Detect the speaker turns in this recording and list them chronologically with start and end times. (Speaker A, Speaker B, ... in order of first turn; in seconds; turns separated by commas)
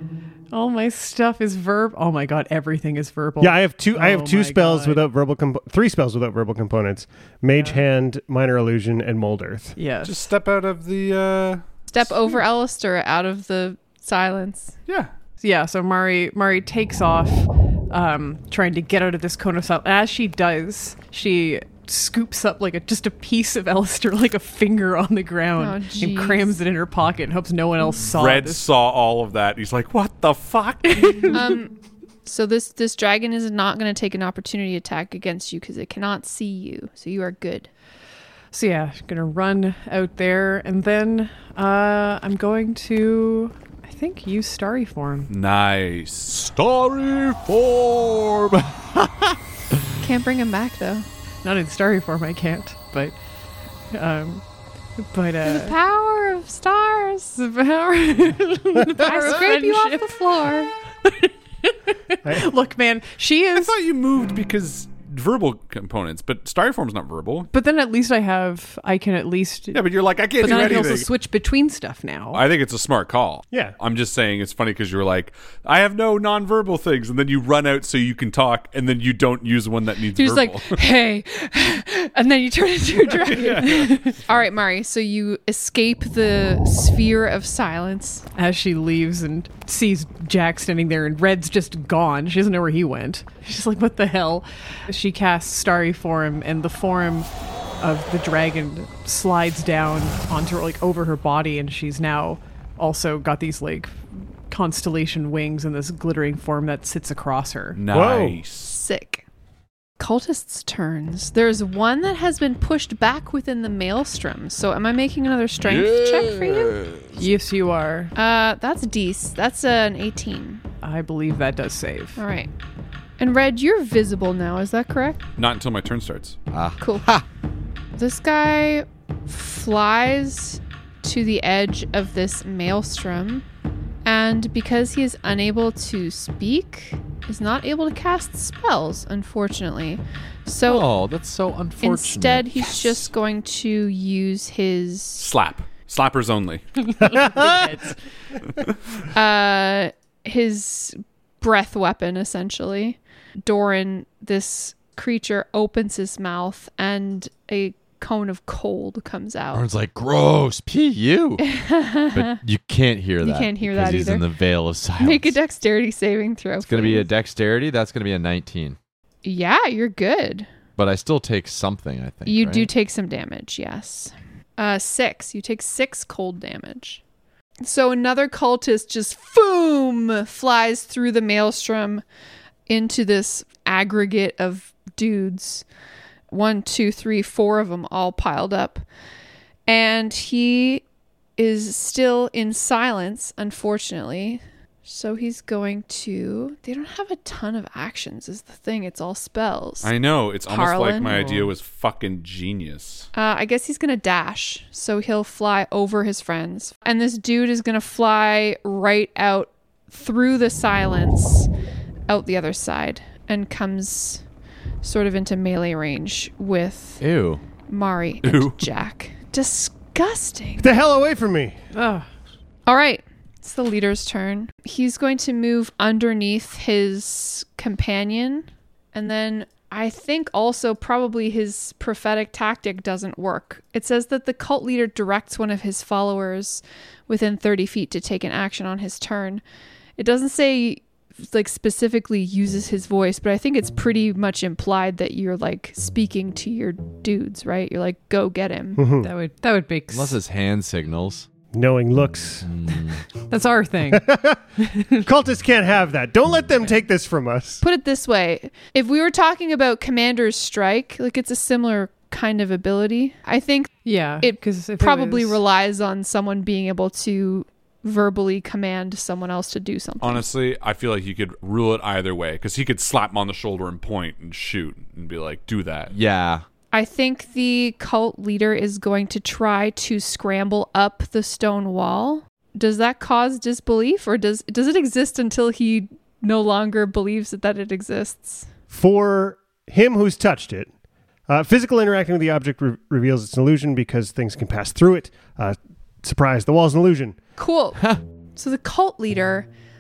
Speaker A: 0.5-5.0, Speaker B: 3.4-9.8, Speaker A: 7.5-7.8, Speaker A: 9.8-10.2, Speaker C: 10.0-11.6, Speaker D: 11.9-14.7, Speaker C: 14.9-15.1, Speaker A: 15.4-28.7, Speaker D: 25.6-26.6, Speaker C: 28.1-31.4, Speaker A: 30.9-31.5, Speaker D: 31.3-31.7, Speaker D: 32.2-37.7, Speaker A: 38.5-45.3, Speaker C: 45.3-46.4, Speaker E: 46.3-49.8, Speaker D: 50.0-51.0, Speaker A: 51.4-53.2, Speaker A: 53.9-54.4, Speaker A: 55.0-55.7, Speaker D: 55.4-57.4, Speaker A: 57.4-63.7, Speaker D: 59.0-60.7, Speaker C: 63.5-67.5, Speaker A: 67.5-69.8, Speaker C: 69.7-71.1, Speaker A: 70.4-72.4, Speaker C: 72.3-80.8, Speaker D: 80.2-88.2, Speaker C: 83.3-84.1, Speaker A: 83.6-84.1, Speaker A: 88.3-97.3, Speaker A: 97.8-107.8, Speaker C: 107.8-108.8, Speaker B: 107.9-108.4, Speaker D: 108.7-109.2, Speaker D: 110.0-116.7, Speaker E: 115.7-117.2, Speaker A: 117.2-118.1, Speaker D: 118.1-120.6, Speaker A: 120.8-122.2, Speaker D: 122.2-122.5, Speaker D: 123.2-125.2, Speaker C: 125.4-126.4, Speaker E: 126.5-127.2, Speaker D: 126.8-127.1, Speaker D: 128.0-133.4, Speaker D: 134.0-140.9, Speaker E: 140.6-143.1, Speaker D: 141.8-145.2, Speaker C: 145.2-146.6, Speaker A: 146.9-147.9, Speaker B: 147.0-147.7, Speaker D: 149.1-159.7, Speaker E: 159.5-161.4, Speaker D: 161.4-162.4, Speaker E: 162.1-165.4, Speaker D: 163.2-164.2, Speaker D: 165.0-167.1, Speaker E: 166.6-168.8, Speaker D: 169.2-170.5, Speaker E: 170.8-172.7, Speaker D: 172.2-177.0, Speaker D: 177.6-182.0, Speaker D: 182.7-185.6, Speaker D: 186.3-188.8, Speaker D: 189.7-190.8, Speaker D: 191.4-199.9, Speaker C: 199.8-203.1, Speaker D: 200.5-201.2, Speaker D: 203.1-211.5, Speaker D: 212.1-214.2, Speaker D: 214.8-217.0, Speaker E: 217.0-217.4, Speaker D: 217.7-220.7, Speaker C: 218.2-218.6, Speaker B: 220.6-221.6, Speaker A: 221.7-222.1, Speaker D: 222.7-239.4, Speaker D: 240.0-248.8, Speaker B: 248.8-249.1, Speaker A: 249.0-250.2, Speaker E: 249.9-251.3, Speaker B: 251.5-252.5, Speaker E: 252.4-253.0, Speaker A: 253.3-254.1, Speaker B: 253.9-254.4, Speaker A: 254.6-255.1, Speaker B: 255.0-257.6, Speaker D: 257.6-270.3, Speaker A: 263.8-265.4, Speaker C: 270.0-275.9, Speaker E: 275.9-276.4, Speaker D: 276.7-288.5, Speaker B: 288.7-290.7, Speaker B: 291.3-297.2, Speaker D: 297.4-297.8, Speaker D: 298.4-299.5